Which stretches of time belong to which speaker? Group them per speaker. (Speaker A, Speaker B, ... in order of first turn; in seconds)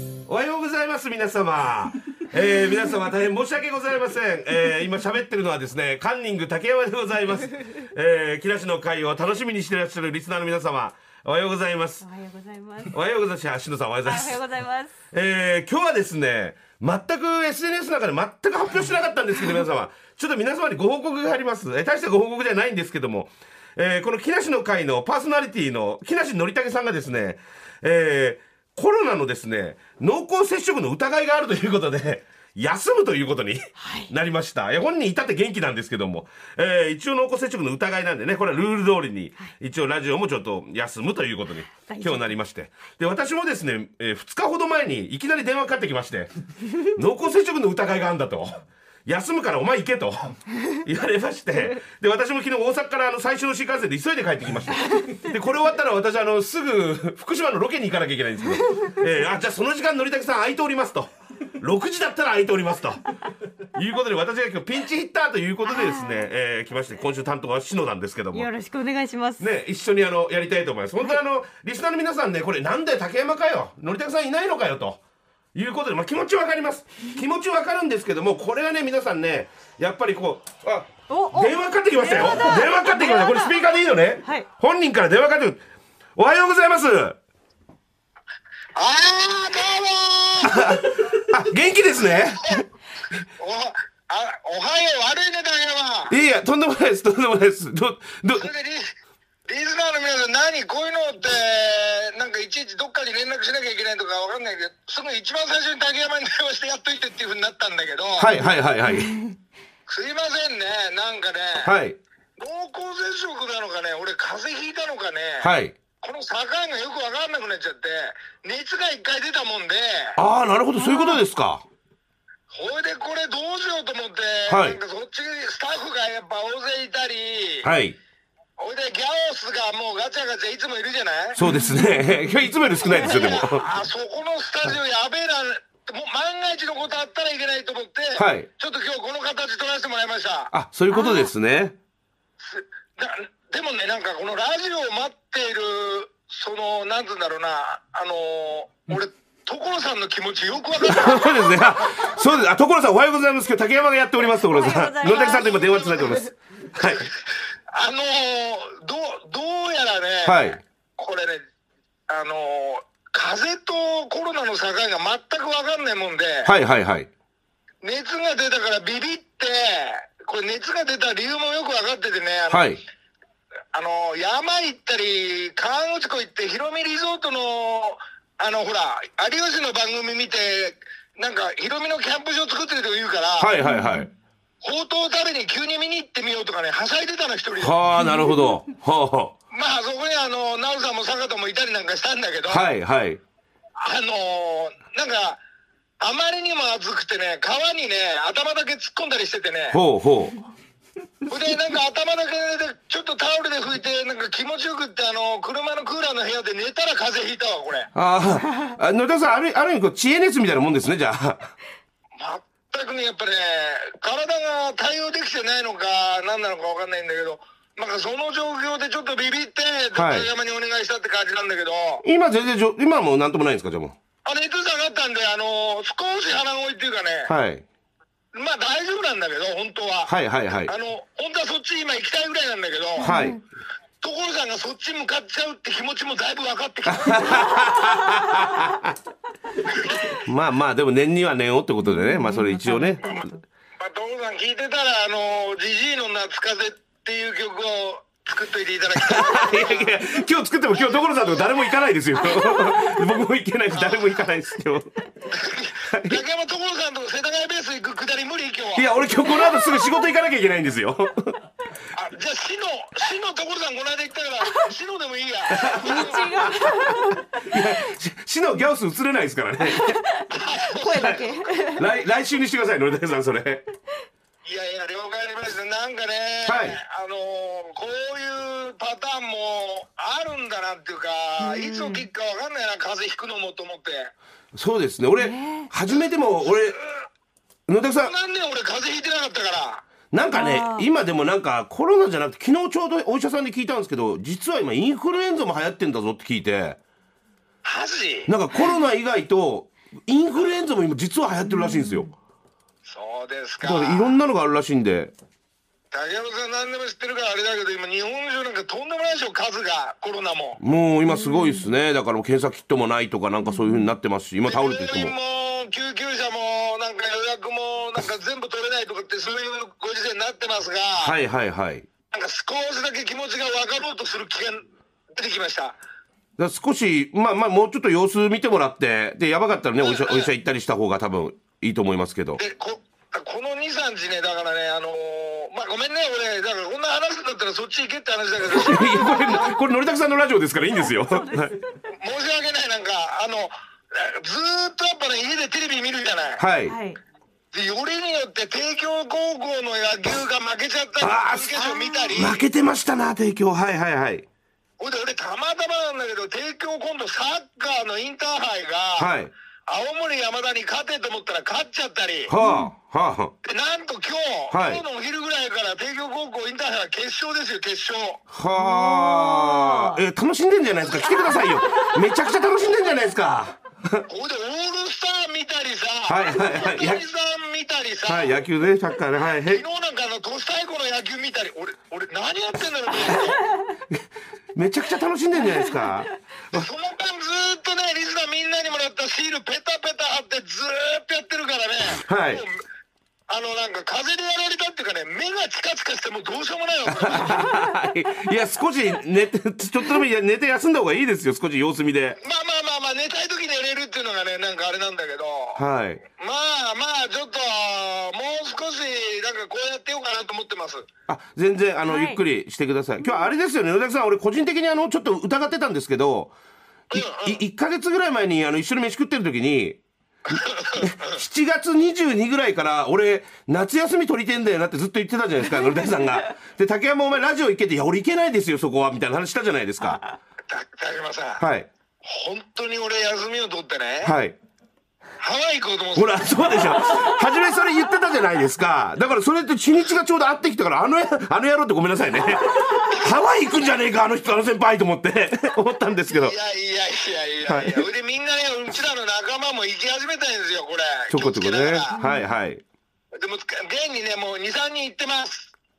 Speaker A: 0.3-12.1, 12.9-14.4, 15.1-46.3, 46.9-63.0, 63.7-68.5, 69.4-75.0, 75.5-85.6, 86.2-87.2, 90.4-92.6, 96.1-98.5, 108.2-109.2, 111.6-112.0, 115.4-115.8, 120.2-121.6, 124.5-124.8, 127.6-128.0, 131.4-133.7, 138.2-138.5, 140.5-141.8, 150.8-157.1, 160.2-160.6, 166.4-167.1, 172.5-172.8, 183.4-184.1, 187.6-189.3, 192.5-193.2, 199.7-200.4, 207.9-211.5, 219.9-220.3, 222.0-224.0, 227.3-227.7, 230.1-230.7, 233.0-233.4, 236.9-238.9, 240.2-243.2, 249.0-254.9, 255.9-256.2, 258.8-261.4, 265.5-270.0, 270.9-271.2, 271.8-273.6, 276.4-276.8, 284.5-286.8, 287.7-288.1, 290.1-296.8, 298.3-302.1, 303.6-305.1, 310.6-315.1, 321.0-321.9, 326.4-332.4, 338.5-341.6, 346.4-346.8, 351.0-351.6, 352.1-354.3, 359.0-359.3, 362.3-363.3, 364.5-364.8, 368.3-374.1, 376.1-377.0, 378.1-379.6, 384.6-386.7, 391.9-392.4, 396.9-402.2, 405.6-406.0, 411.1-416.3, 416.9-419.8, 420.3-430.0, 431.4-431.7, 434.0-434.4, 435.9-446.4, 447.5-447.9, 451.1-452.6
Speaker B: 12.0-13.0, 14.1-14.9, 33.8-34.1, 41.9-42.4, 65.7-66.3, 68.3-69.5, 81.1-83.7, 84.2-84.5, 108.9-109.3, 120.8-121.2, 131.5-132.0, 140.9-141.3, 154.3-156.3, 183.6-184.1, 188.0-188.5, 233.0-233.4, 241.8-243.4, 252.2-253.0, 259.3-259.8, 265.8-267.7, 269.7-270.2, 270.8-271.9, 281.4-282.1, 285.2-285.7, 290.3-290.9, 301.4-302.1, 311.1-311.7, 313.4-313.9, 338.8-339.6, 340.9-341.5, 346.7-347.0, 351.6-352.2, 362.4-362.7, 368.6-370.0, 371.2-372.1, 411.9-412.2, 425.6-425.9, 452.0-452.2
Speaker C: 88.8-90.7, 93.4-96.1, 98.4-98.9, 99.5-108.4, 109.9-111.7, 112.4-120.2, 122.5-127.7, 128.6-131.4, 132.9-140.5, 142.4-151.7, 157.7-161.4, 162.1-166.5, 167.8-172.7, 173.7-183.5, 184.6-187.8, 189.5-192.7, 193.8-195.4, 196.0-199.8, 201.3-207.9, 212.2-222.0, 224.2-227.3, 228.3-230.1, 230.7-233.1, 234.0-237.5, 243.8-250.0, 253.7-254.1, 255.3-258.9, 261.9-266.5, 270.3-271.4, 274.4-284.1, 288.0-289.9, 297.6-298.3, 302.9-304.2, 305.9-310.6, 314.4-321.1, 322.1-324.6, 325.1-325.8, 329.8-330.3, 332.4-339.3, 342.0-346.4, 347.5-352.4, 354.8-359.1, 359.7-362.3, 363.4-368.2, 374.1-378.3, 379.5-383.4, 386.5-392.6, 393.3-397.4, 402.2-405.6, 406.2-410.9, 416.9-417.4, 420.3-421.1, 430.5-431.4, 432.0-434.1, 435.2-436.9, 446.1-451.9, 453.1-455.5